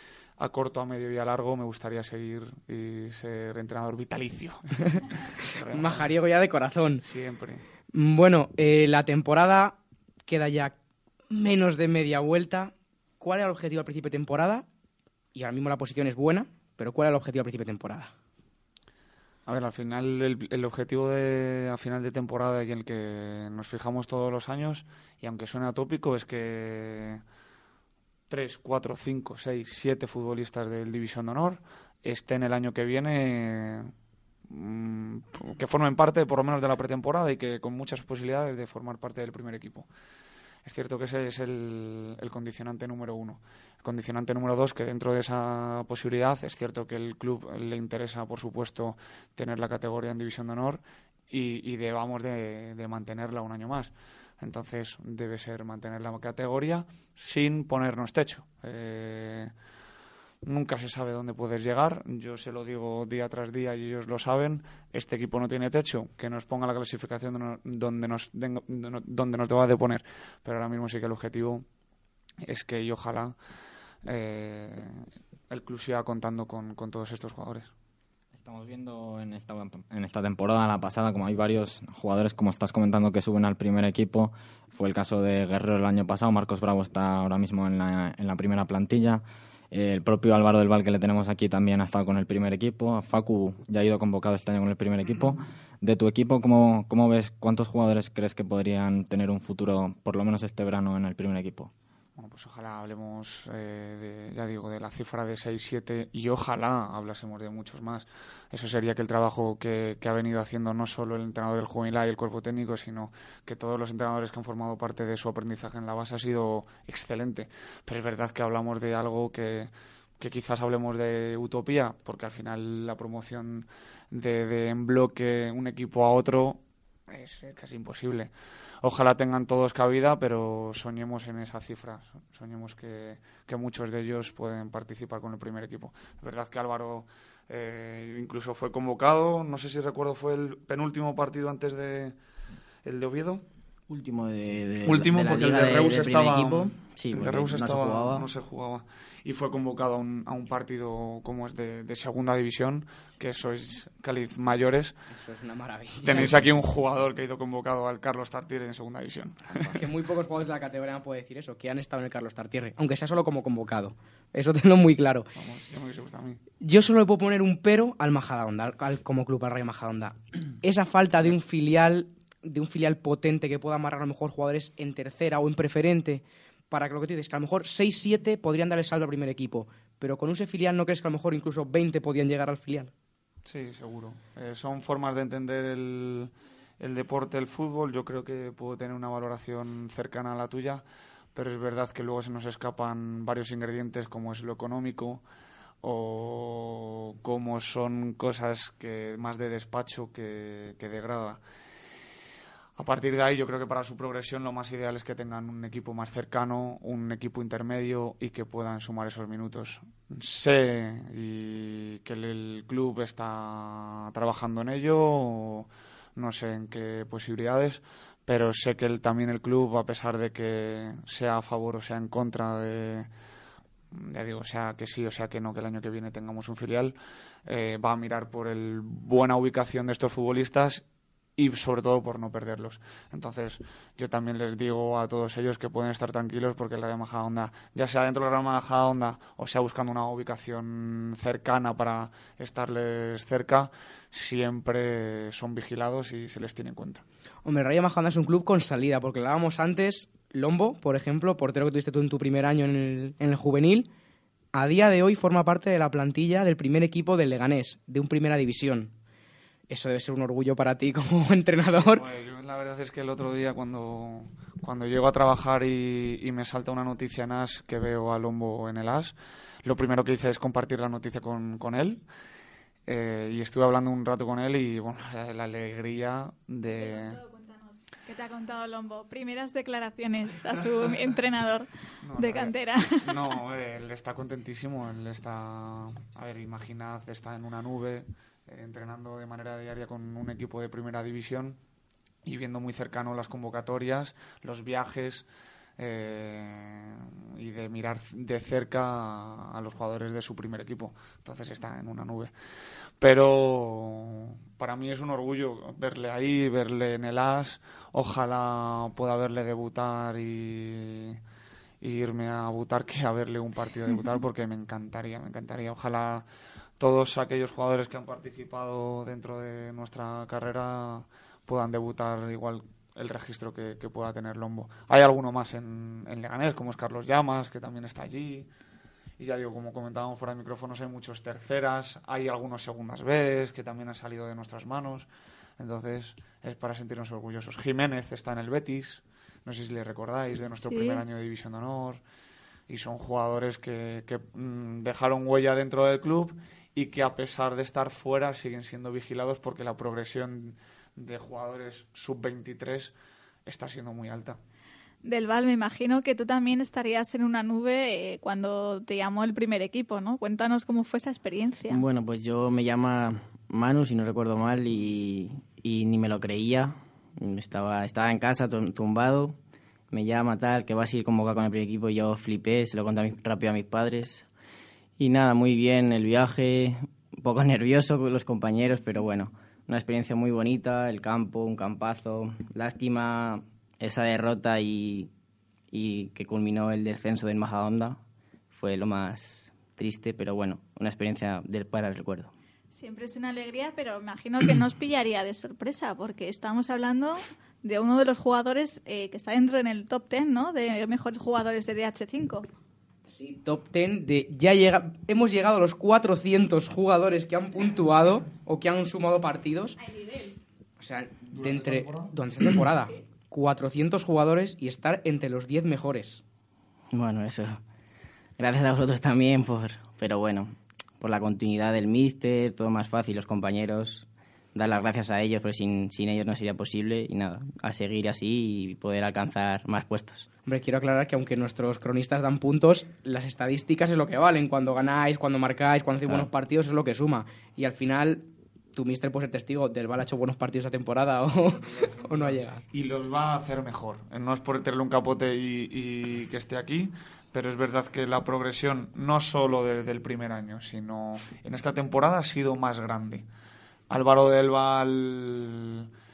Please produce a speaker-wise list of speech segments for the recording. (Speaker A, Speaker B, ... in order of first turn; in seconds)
Speaker A: 0.4-6.1, 7.0-7.6, 19.4-27.2, 28.3-33.9, 34.5-39.9, 40.6-59.5, 60.4-71.6, 72.4-73.3, 74.0-77.7, 102.2-142.2, 142.8-143.4, 144.8-154.9, 156.0-159.9, 165.3-166.4, 183.4-190.8, 191.3-195.2, 195.8-201.4, 202.8-223.1, 223.9-230.8, 231.4-247.0, 261.8-272.0, 272.9-277.2, 282.0-291.6, 292.2-295.3, 295.8-302.3, 303.0-311.2, 311.8-316.2, 316.8-328.5, 329.2-335.1, 335.6-342.0, 342.7-352.9, 353.4-354.4, 411.3-412.1, 441.7-453.3, 453.9-455.9
Speaker B: 5.7-7.0, 7.9-10.7, 11.3-14.7, 15.3-18.1, 155.1-156.6, 159.6-165.3, 166.6-182.9, 247.4-253.9, 254.5-258.9, 259.7-262.0, 403.1-409.8, 410.8-416.2, 430.4-442.6
Speaker C: 78.3-101.7
Speaker D: 143.9-148.3, 361.7-369.4, 369.9-374.2, 375.0-385.1, 385.7-388.0, 388.5-392.3, 416.9-417.6, 418.4-430.3
Speaker E: 277.0-283.4, 340.7-341.0, 355.0-361.8, 392.7-402.5